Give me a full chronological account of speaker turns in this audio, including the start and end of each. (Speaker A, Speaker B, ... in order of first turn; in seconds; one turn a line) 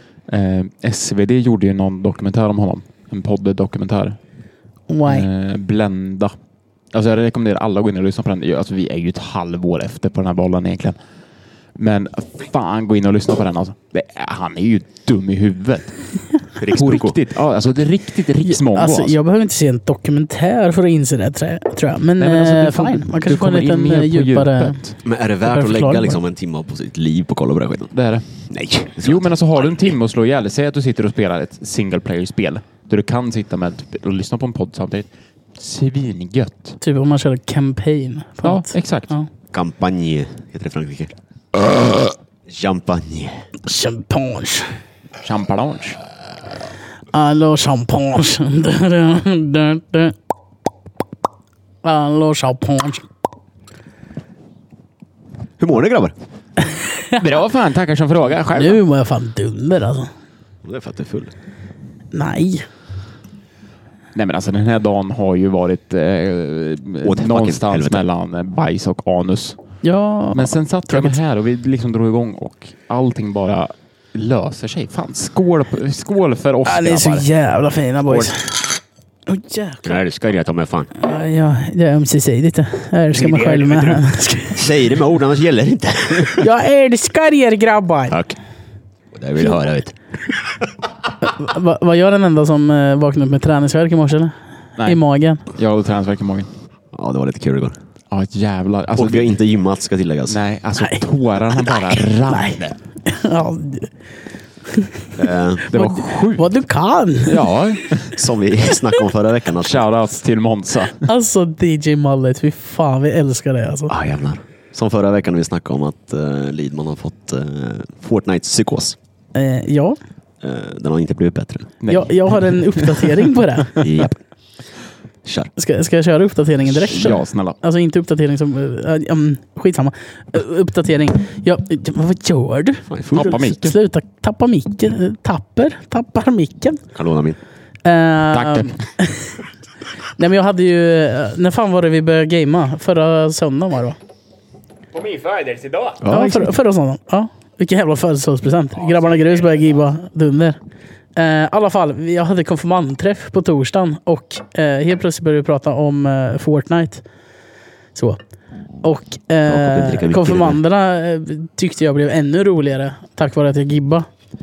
Speaker A: 0.3-4.2
Speaker B: 4.9-5.3
Speaker A: 5.0-6.3
Speaker A: 6.9-10.9
Speaker A: 11.8-16.1
Speaker C: 16.6-17.2
Speaker A: 16.7-19.1
Speaker B: 18.4-24.8
Speaker A: 22.2-24.9
Speaker C: 25.0-27.9
Speaker B: 25.4-26.2
Speaker A: 27.9-28.3
Speaker C: 28.5-29.9
Speaker A: 29.0-36.8
Speaker B: 36.8-39.3
Speaker A: 38.4-39.1
Speaker C: 39.5-41.6
Speaker C: 42.5-43.4
Speaker B: 43.6-44.8
Speaker A: 45.2-46.0
Speaker B: 47.1-50.1
Speaker B: 51.8-53.0
Speaker C: 55.6-56.1
Speaker B: 56.6-57.2
Speaker A: 57.2-58.8
Speaker B: 58.5-60.1
Speaker C: 60.6-61.3
Speaker B: 62.1-62.6
Speaker A: 64.1-69.6
Speaker C: 67.0-68.0
Speaker B: 69.8-71.1
Speaker A: 70.3-77.2
Speaker B: 76.6-78.6
Speaker A: 78.1-78.3
Speaker B: 79.3-80.0
Speaker C: 79.8-80.9
Speaker B: 80.9-84.7
Speaker A: 83.1-84.0
Speaker C: 84.5-86.5
Speaker B: 86.4-88.2
Speaker C: 88.1-88.3
Speaker C: 89.1-90.0
Speaker B: 91.2-94.3
Speaker A: 94.8-96.5
Speaker B: 94.8-95.4
Speaker C: 96.9-97.8
Speaker A: 98.1-99.4
Speaker C: 99.0-100.4
Speaker A: 100.3-102.8
Speaker B: 100.8-103.9
Speaker B: 104.7-107.5
Speaker C: 105.2-105.7
Speaker A: 105.7-106.5
Speaker A: 107.2-108.2
Speaker C: 108.1-109.8
Speaker A: 109.5-111.0
Speaker B: 111.0-113.9
Speaker C: 113.9-119.0
Speaker B: 119.3-120.0
Speaker C: 120.4-121.7
Speaker A: 121.8-123.1
Speaker B: 121.9-123.8
Speaker C: 123.8-124.2
Speaker C: 125.2-125.5
Speaker B: 125.5-136.8
Speaker A: 126.9-127.6
Speaker C: 132.9-133.4
Speaker A: 133.1-133.8
Speaker C: 136.9-137.4
Speaker B: 137.8-139.3
Speaker A: 138.3-138.8
Speaker B: 140.2-144.0
Speaker A: 144.9-146.0
Speaker C: 146.0-146.5
Speaker B: 146.1-150.6
Speaker A: 148.8-149.7
Speaker B: 151.2-157.0
Speaker B: 158.8-164.1
Speaker C: 159.4-160.6